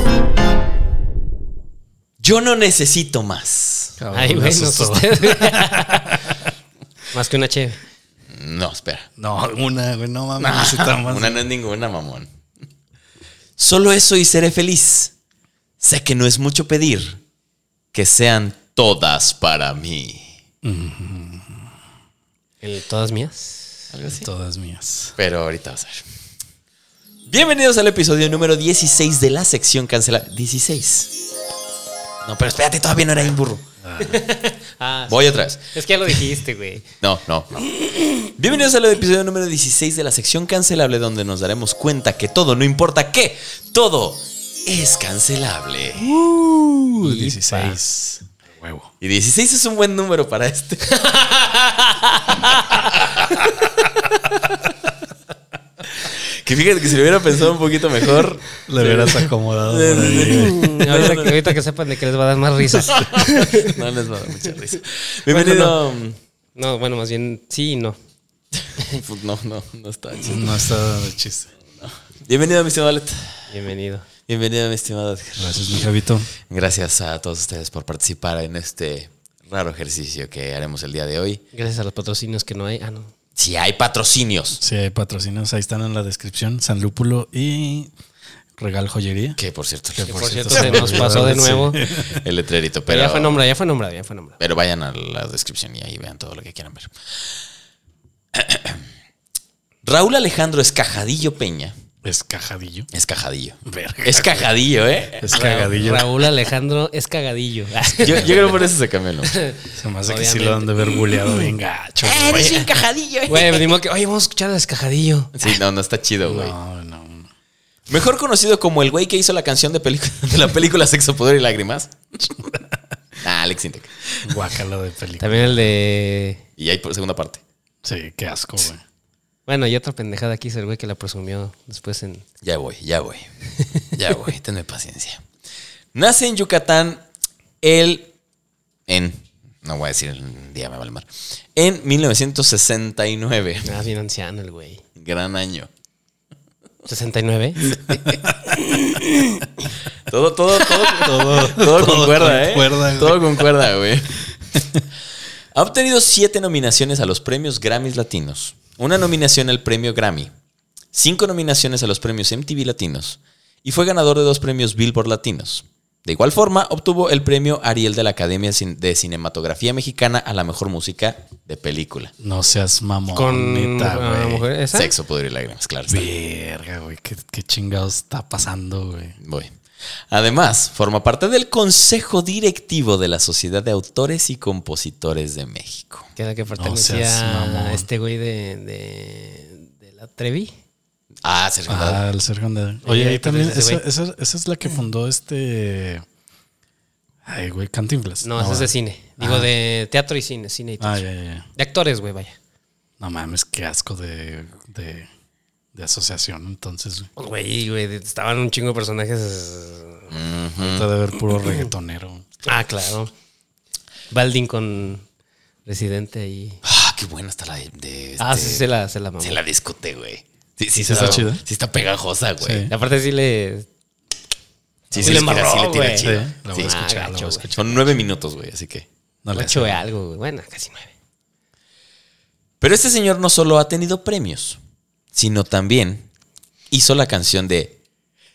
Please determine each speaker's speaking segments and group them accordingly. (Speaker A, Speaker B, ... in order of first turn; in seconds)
Speaker A: 2.2-4.0, 8.3-9.1, 10.4-12.3, 13.6-15.1, 15.8-17.2, 17.9-20.4, 23.9-24.3, 25.2-26.1, 27.3-31.1, 32.2-33.6, 35.1-35.6, 37.0-46.1, 49.0-51.1, 56.0-61.5, 62.7-66.2, 68.9-70.7, 72.3-73.5, 74.3-75.8, 76.5-81.4, 83.4-84.6, 89.4-91.3, 91.9-93.4, 94.4-96.9, 98.3-98.8, 99.8-101.7, 102.9-105.4, 107.9-109.4, 112.0-113.7, 115.3-116.5, 117.9-122.5, 123.2-124.4, 126.6-127.4, 132.4-133.3, 133.9-135.2, 135.9-137.0, 137.6-138.1, 138.9-143.8, 145.0-145.7, 150.1-154.2, 155.6-160.3, 160.9-172.1, 174.7-176.1, 179.2-179.5, 180.1-186.1, 191.2-192.0, 210.1-210.9, 216.6-218.7, 219.2-222.7, 224.9-226.7, 227.6-228.9, 232.6-234.6, 235.1-236.1, 236.7-237.8
Speaker B: 4.0-6.5, 9.2-11.4, 20.6-21.7, 24.1-25.2, 33.8-34.2, 46.2-48.9, 58.7-60.7, 70.2-71.5, 75.4-76.3, 84.6-87.9, 88.6-89.4, 90.0-92.2, 102.0-102.9, 103.7-104.5, 105.2-106.1, 109.8-112.7, 116.2-117.3, 124.2-125.7, 127.8-128.8, 147.9-148.3, 150.9-153.5, 154.5-154.8, 172.2-174.5, 175.9-179.2, 186.5-187.9, 191.7-196.0, 197.2-199.5, 200.8-201.5, 203.0-205.1, 205.7-207.1, 210.6-212.2, 220.8-221.4, 222.4-222.7, 224.9-225.3, 226.0-228.0, 229.2-229.8
Speaker C: 4.1-6.3, 7.1-7.8, 22.6-23.9, 34.0-36.9, 37.8-38.3, 47.0-47.8, 50.9-53.0, 60.1-63.8, 65.3-65.8, 66.6-68.0, 73.5-74.1, 81.5-83.1, 90.0-91.8, 92.9-94.4, 105.3-108.7, 109.2-111.5, 112.4-112.6, 113.3-115.5, 125.2-126.4, 129.5-132.2, 143.7-144.8, 146.8-149.7, 173.1-174.9, 186.2-190.5, 192.8-193.8, 198.2-201.1, 201.6-202.4, 207.2-210.1, 212.5-213.1, 214.1-215.1, 215.7-216.6, 218.2-219.4, 222.7-223.7, 224.9-227.5, 229.3-230.9